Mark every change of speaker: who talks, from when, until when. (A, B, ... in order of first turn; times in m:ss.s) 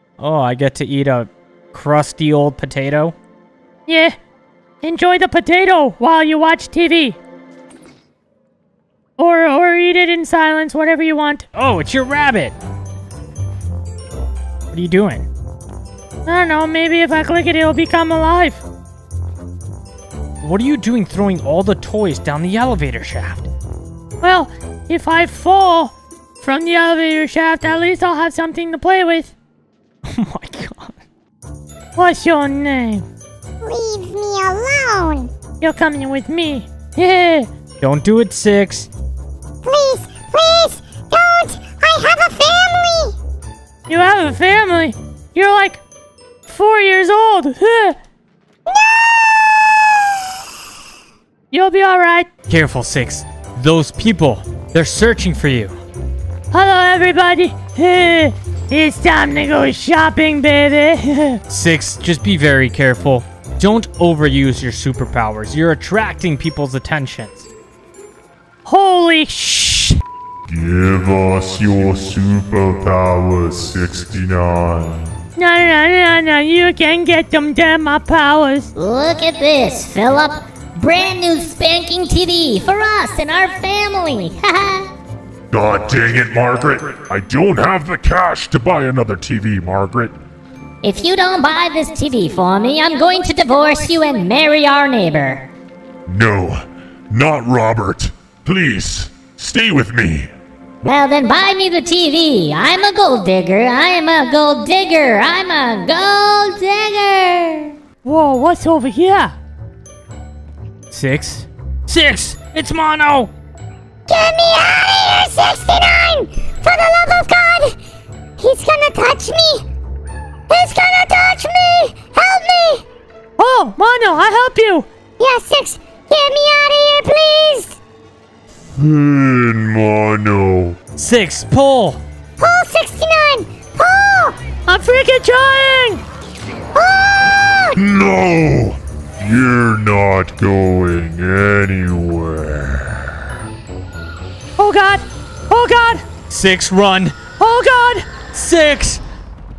0:00.2-0:03.2 A
0:03.9-0:04.2 B
0:04.8-0:07.2 B
0:09.2-0:11.5 B
0:11.5-0:12.6 A
0:14.7-0:15.3 A
0:16.2-0:18.6 B
0:20.4-0:23.4 A
0:24.2-0:29.3 B
0:30.1-0:31.0 A
0:32.0-0:33.1 B
0:33.6-0:35.3 C
0:35.6-0:37.5 B
0:37.8-0:38.9 A
0:39.6-0:43.1 C
0:43.9-0:45.8 B
0:46.4-0:48.0 B
0:48.7-0:49.7 C
0:51.5-0:52.3 B
0:52.5-0:55.7 A
0:56.5-1:01.4 B
1:01.5-1:07.5 A
1:08.6-1:10.0 B
1:10.5-1:15.1 D
1:15.4-1:18.7 B
1:18.7-1:24.9 E
1:25.5-1:30.1 D
1:30.8-1:35.5 E
1:36.0-1:40.3 D
1:40.8-1:47.8 E
1:48.0-1:49.3 B
1:50.9-1:53.3 A
1:54.1-1:57.8 C
1:58.4-1:59.6 C
2:00.5-2:02.8 C
2:03.4-2:04.8 B
2:05.2-2:07.8 C
2:08.8-2:10.8 D
2:11.0-2:12.0 A
2:12.4-2:14.4 C
2:14.6-2:16.0 B
2:16.7-2:17.8 C
2:17.8-2:23.3 D
2:24.6-2:26.0 B
2:26.3-2:27.2 A
2:27.4-2:28.1 B
2:28.1-2:29.0 A